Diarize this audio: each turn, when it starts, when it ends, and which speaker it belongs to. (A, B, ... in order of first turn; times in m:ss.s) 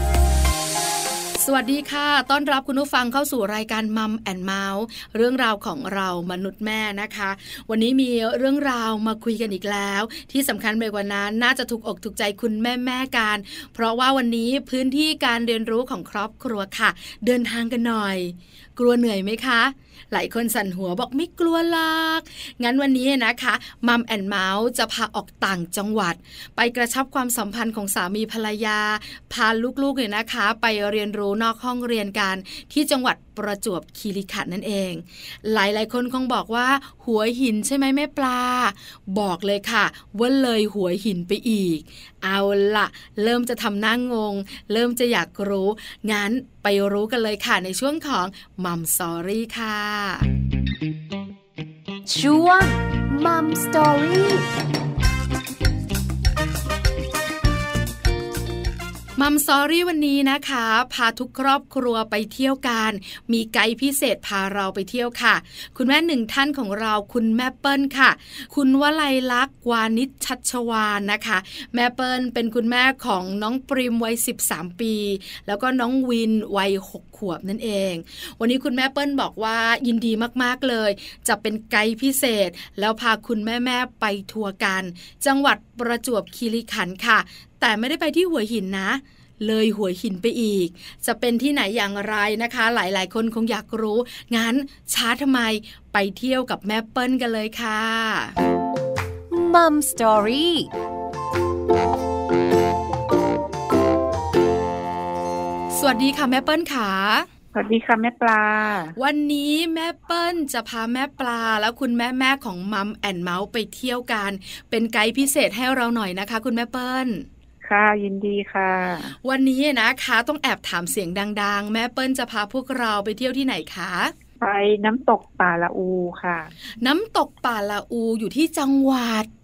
0:01.4-0:50.3 A
0:52.0-0:54.5 B
0:59.2-1:38.3 A
1:39.3-1:40.7 B
1:45.7-1:47.3 A
1:47.5-1:49.0 C
1:49.0-1:57.2 A
1:57.6-1:59.2 C
1:59.2-2:04.1 A
2:04.4-2:06.6 C
2:06.7-2:09.3 A